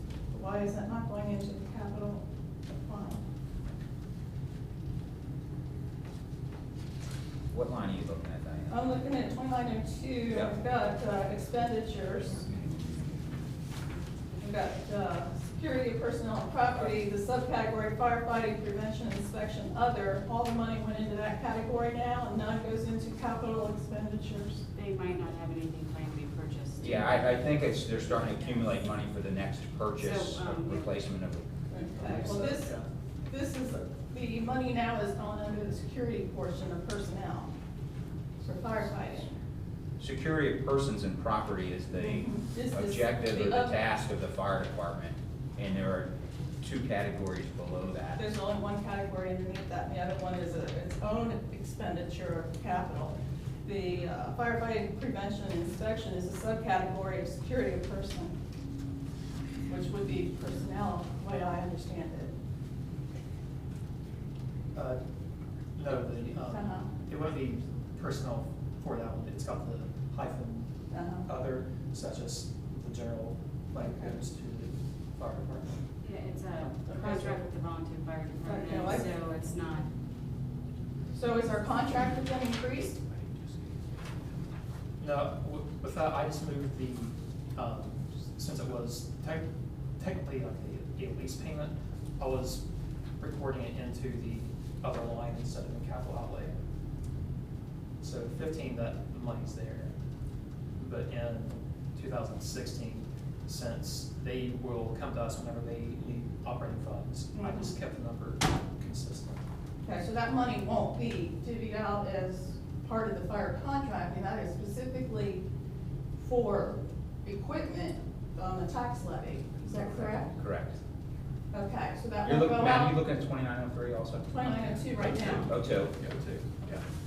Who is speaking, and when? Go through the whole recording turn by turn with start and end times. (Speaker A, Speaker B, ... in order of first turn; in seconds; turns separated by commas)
Speaker A: 0.3-3.2, Speaker B: 7.5-8.9, Speaker A: 8.7-12.7, Speaker A: 14.3-24.6, Speaker C: 24.7-27.8, Speaker B: 26.8-31.5, Speaker C: 30.0-30.9, Speaker A: 31.7-32.8, Speaker D: 32.0-32.9, Speaker A: 33.3-37.5, Speaker A: 38.4-39.3, Speaker B: 40.0-48.2, Speaker A: 41.9-43.8, Speaker A: 48.2-58.3, Speaker A: 59.7-62.3, Speaker D: 64.7-65.0, Speaker D: 65.7-75.8, Speaker A: 66.5-66.9, Speaker A: 70.9-71.3, Speaker A: 73.8-74.1, Speaker C: 76.0-79.9, Speaker A: 76.8-77.4, Speaker A: 78.4-79.1, Speaker A: 81.1-83.0, Speaker D: 85.0-89.5, Speaker D: 90.0-92.6, Speaker D: 93.2-96.5, Speaker D: 98.0-99.9, Speaker D: 100.8-109.4, Speaker A: 107.3-107.7, Speaker A: 109.8-115.4, Speaker A: 116.2-120.3, Speaker B: 120.2-120.7, Speaker A: 121.5-123.0, Speaker B: 122.2-126.0, Speaker A: 124.3-125.5, Speaker D: 126.0-126.5